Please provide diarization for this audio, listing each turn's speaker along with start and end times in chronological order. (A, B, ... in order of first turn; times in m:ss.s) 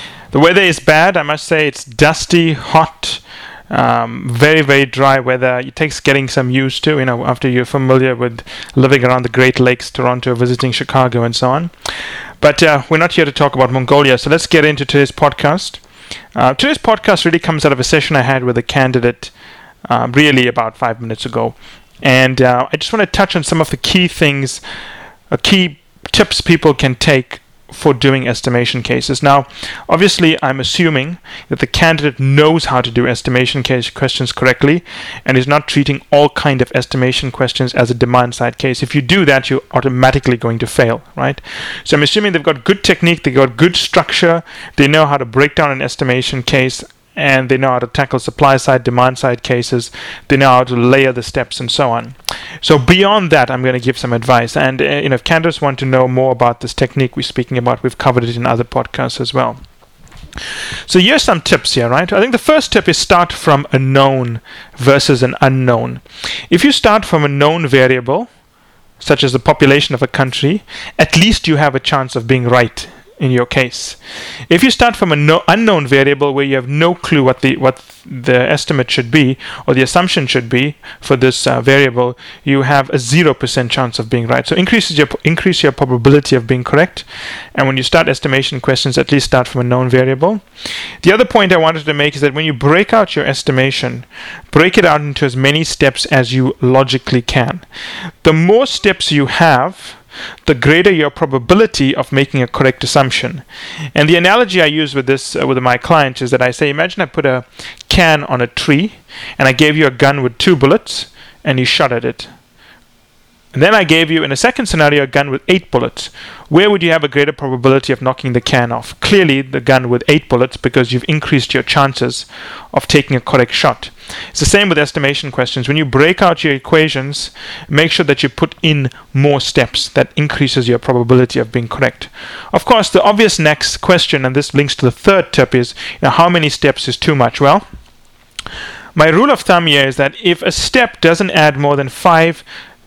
0:00.3-0:11.7 A
0:12.4-0:15.8 A
0:16.3-0:19.3 A
0:19.9-0:24.6 A
0:25.3-0:59.6 A
1:00.8-1:08.3 A
1:09.0-1:14.0 A
1:14.5-1:30.4 A
1:31.0-1:37.6 A
1:38.2-1:52.3 A
1:53.5-2:17.6 A
2:18.9-2:22.4 A